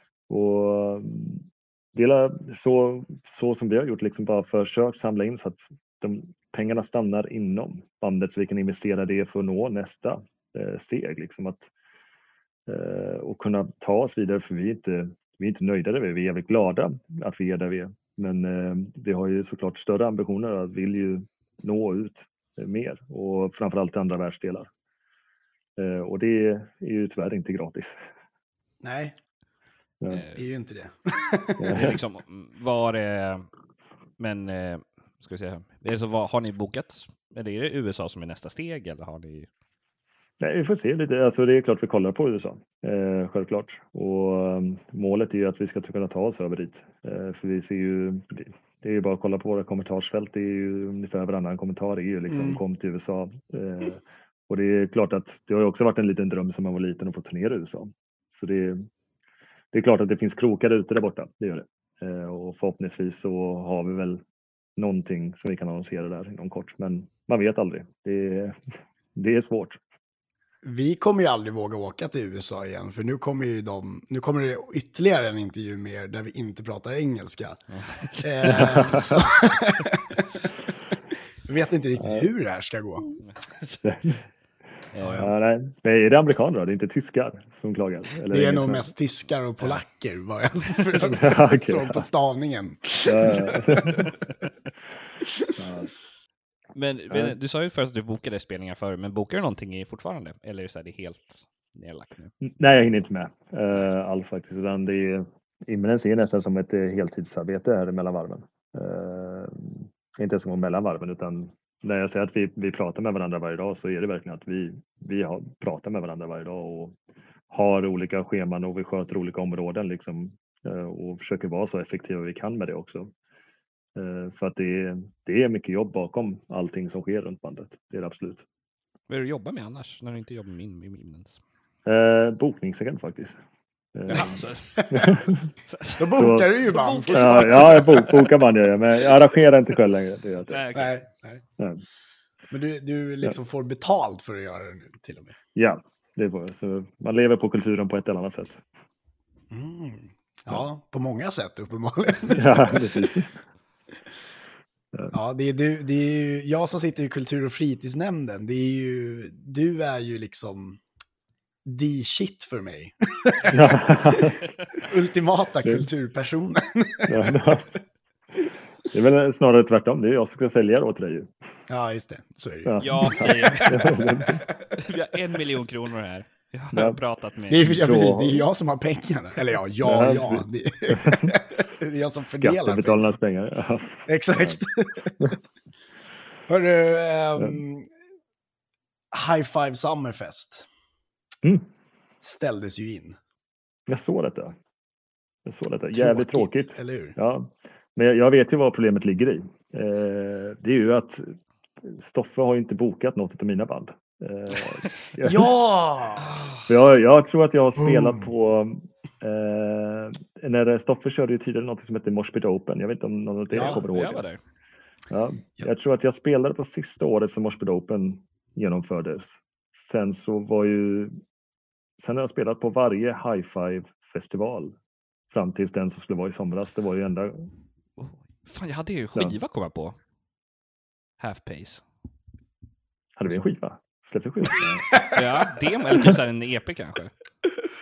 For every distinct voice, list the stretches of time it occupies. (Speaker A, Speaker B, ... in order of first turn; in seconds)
Speaker A: 0.3-11.7, 12.7-24.7, 25.8-28.0, 31.6-31.9, 40.4-58.9, 59.7-64.2, 64.8-68.5, 69.1-69.8, 78.4-79.2, 82.0-82.3, 83.8-84.2, 85.2-88.9, 91.0-92.1, 93.0-94.1, 95.6-95.9, 102.4-117.0, 117.5-123.1, 124.0-128.4, 131.8-133.4, 133.9-135.5, 136.1-136.5, 137.1-140.6, 145.6-148.6, 152.3-153.3, 163.5-164.4, 167.1-167.7, 168.9-171.3, 172.7-174.4, 176.7-177.0, 177.6-178.4, 179.8-181.3, 182.4-184.6, 193.9-194.5, 195.4-205.4, 206.7-214.2, 215.1-221.1, 222.0-224.7, 225.3-227.5, 233.2-234.8
Speaker B: 28.8-29.1, 30.3-31.7, 52.3-52.6, 70.6-77.6, 78.2-80.5, 81.4-83.0, 85.0-85.3, 88.3-94.1, 95.2-95.5, 134.1-134.9, 135.9-138.3, 140.7-141.4, 142.5-145.3, 149.5-152.8, 155.1-160.8, 161.6-167.3, 171.7-174.1, 177.5-183.1, 184.1-185.3, 186.5-187.9, 189.1-190.7, 192.2-193.2, 195.9-197.2, 205.2-206.3, 207.8-208.3, 213.5-213.8, 234.9-235.2, 235.9-236.2
Speaker C: 30.1-30.4, 31.7-33.5, 34.2-39.5, 77.7-78.9, 83.2-83.8, 84.9-85.3, 96.7-102.3, 129.1-131.4, 134.1-134.9, 135.7-136.1, 136.7-138.1, 140.5-141.0, 172.8-173.9, 174.8-178.1, 206.2-206.6, 213.9-214.4, 228.0-230.0, 231.2-231.8, 235.1-237.1